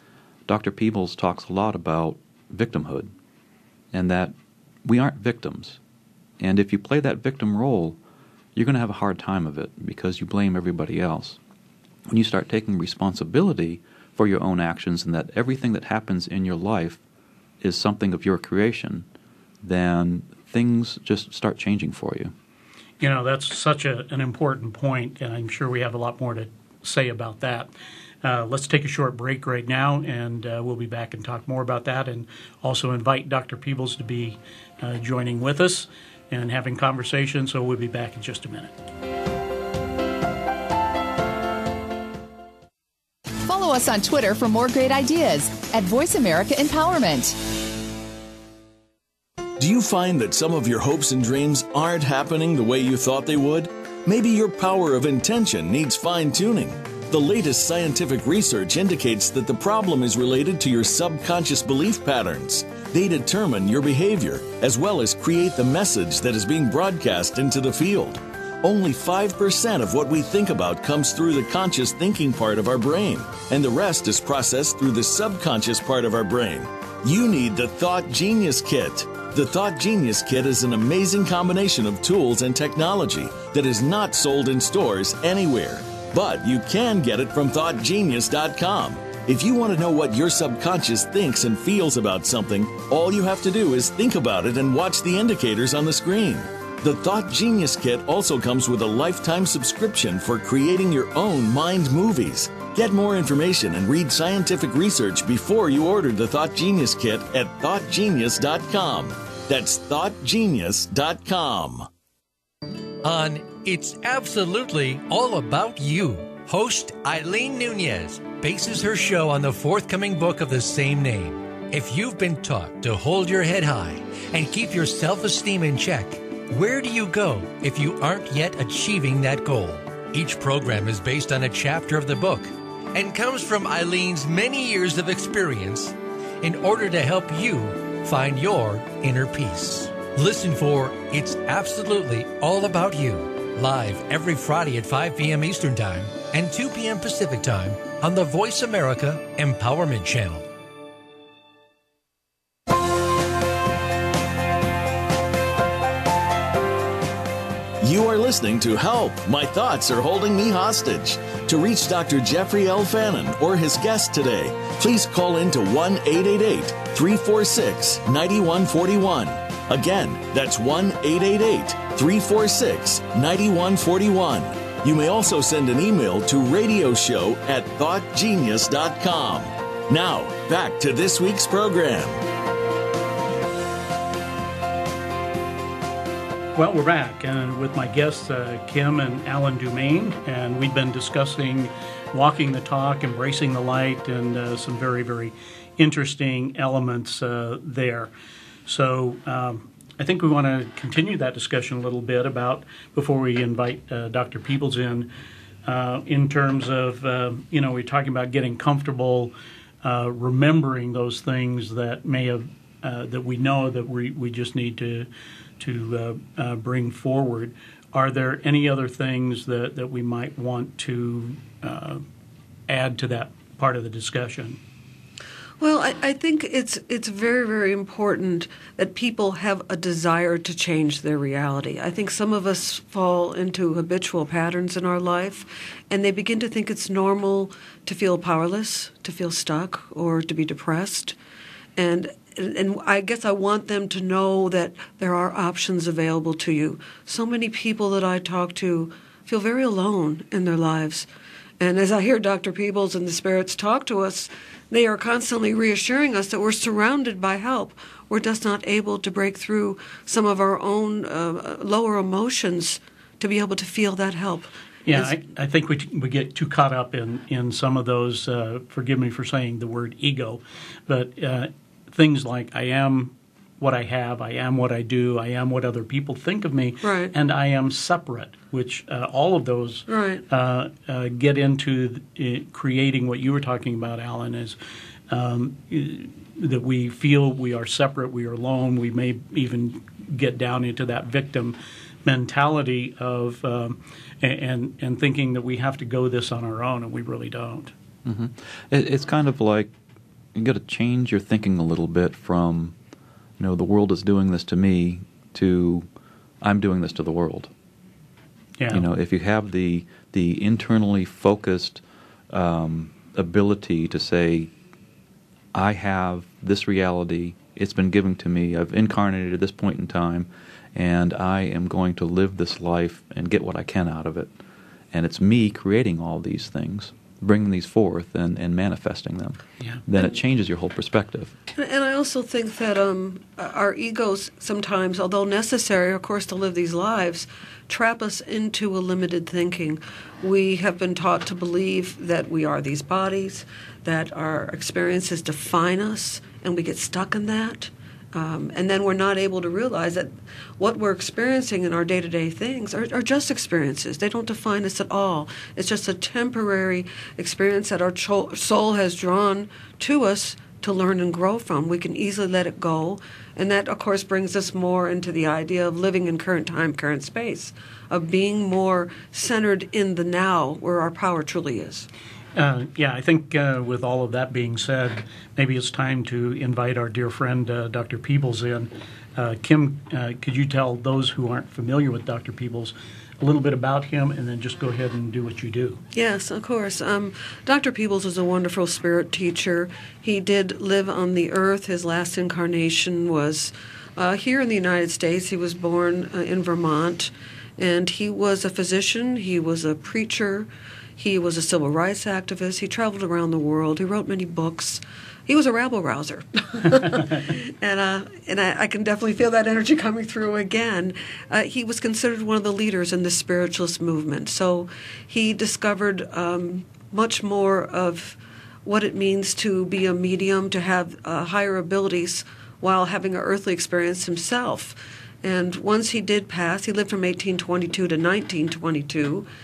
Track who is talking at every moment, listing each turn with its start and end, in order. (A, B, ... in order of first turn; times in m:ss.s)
0:00.5-0:03.1 A
0:03.9-0:05.8 A
0:06.4-0:08.0 A
0:08.5-0:11.4 A
0:12.1-0:17.0 A
0:17.6-0:19.1 A
0:19.6-0:22.3 A
0:23.0-0:27.7 B
0:28.2-0:38.7 B
0:43.4-0:47.4 C
0:49.6-1:51.9 D
1:53.0-2:30.5 E
2:37.8-3:02.2 D
3:06.5-3:18.1 B
3:18.6-3:25.1 B
3:25.6-3:35.1 B
3:35.6-3:42.0 B
3:42.7-3:44.6 B
3:45.6-4:01.2 F
4:01.8-4:11.1 F
4:11.6-4:25.1 F
4:24.9-4:44.6 B
4:36.8-4:37.1 F
4:39.9-4:40.2 F
4:45.1-4:57.7 B
4:58.0-4:59.7 A
5:00.3-5:02.8 A
5:03.4-5:05.9 A
5:06.4-5:07.5 A
5:08.6-5:08.9 B
5:08.7-5:14.5 A
5:15.5-5:24.3 A
5:24.9-5:31.4 A
5:31.6-6:11.9 F
6:12.4-6:25.8 B
6:25.9-7:09.2 F